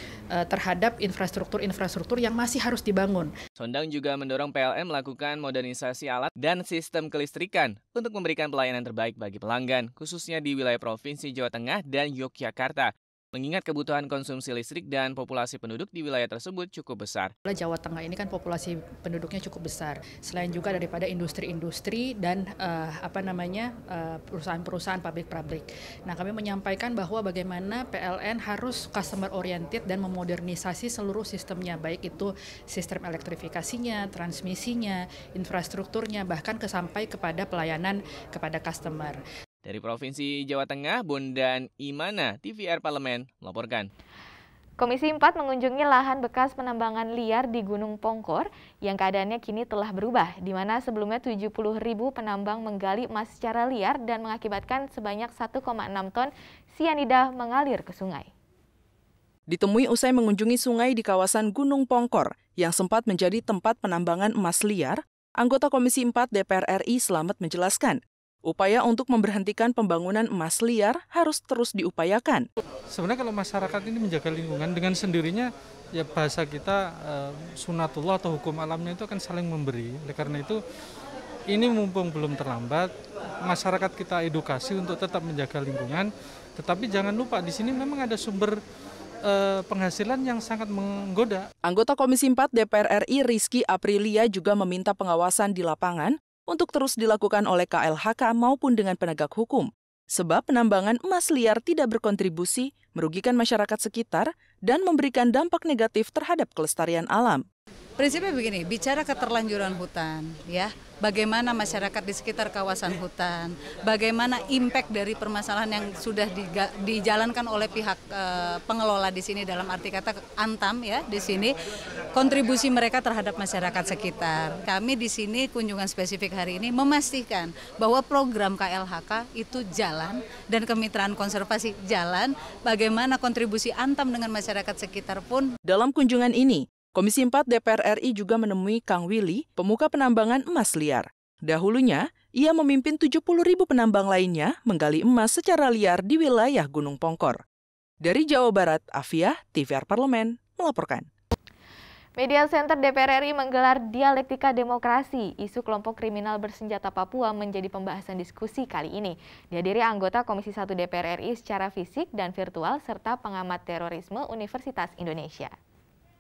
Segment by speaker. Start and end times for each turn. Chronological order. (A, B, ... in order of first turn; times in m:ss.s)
0:00.3-0:03.3 A
0:03.6-0:17.3 B
0:17.5-0:39.2 A
0:39.6-0:43.9 B
0:44.8-0:58.3 C
0:59.5-1:12.4 D
1:12.9-1:20.6 E
1:21.5-1:22.9 E
1:23.4-1:28.6 E
1:29.2-1:31.5 E
1:31.6-1:47.4 D
1:48.0-2:01.5 F
2:02.1-2:15.5 F
2:15.6-2:27.4 D
2:28.0-2:31.1 D
2:32.2-2:45.5 C